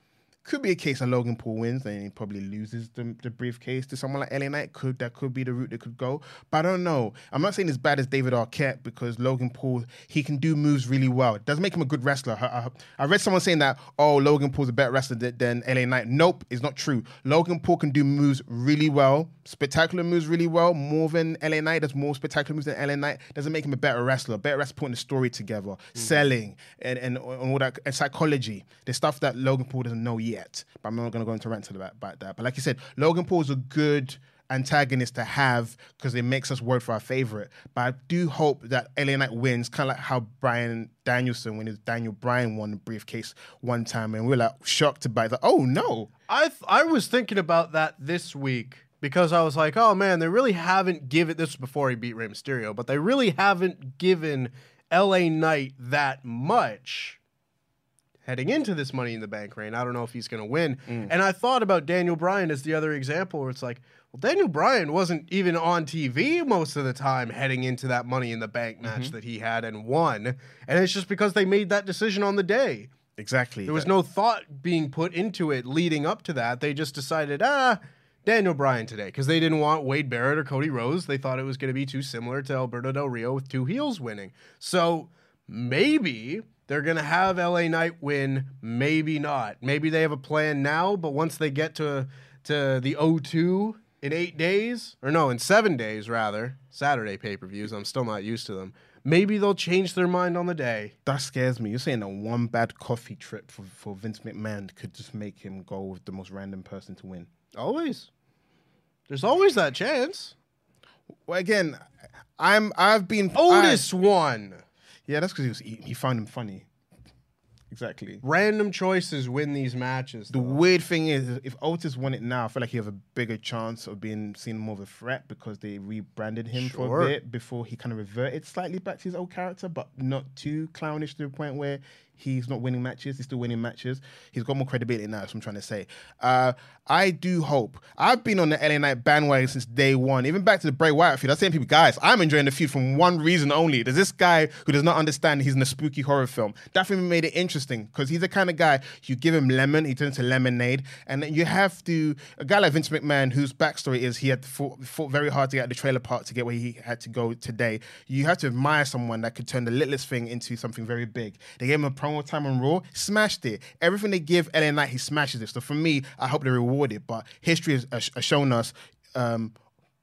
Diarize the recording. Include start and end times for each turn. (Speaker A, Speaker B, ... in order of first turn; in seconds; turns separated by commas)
Speaker A: 0.4-46.1, Speaker B: 46.3-57.2, Speaker B: 58.2-72.9, Speaker A: 60.9-61.1, Speaker A: 68.8-69.1, Speaker A: 73.2-73.9, Speaker B: 73.7-100.9, Speaker A: 101.0-107.3, Speaker B: 107.5-108.1, Speaker B: 109.1-110.3, Speaker A: 111.2-111.8, Speaker A: 112.4-113.8, Speaker B: 113.3-114.6, Speaker A: 115.1-116.7, Speaker A: 117.7-118.2, Speaker B: 118.2-120.6, Speaker A: 120.3-169.6, Speaker B: 126.5-127.1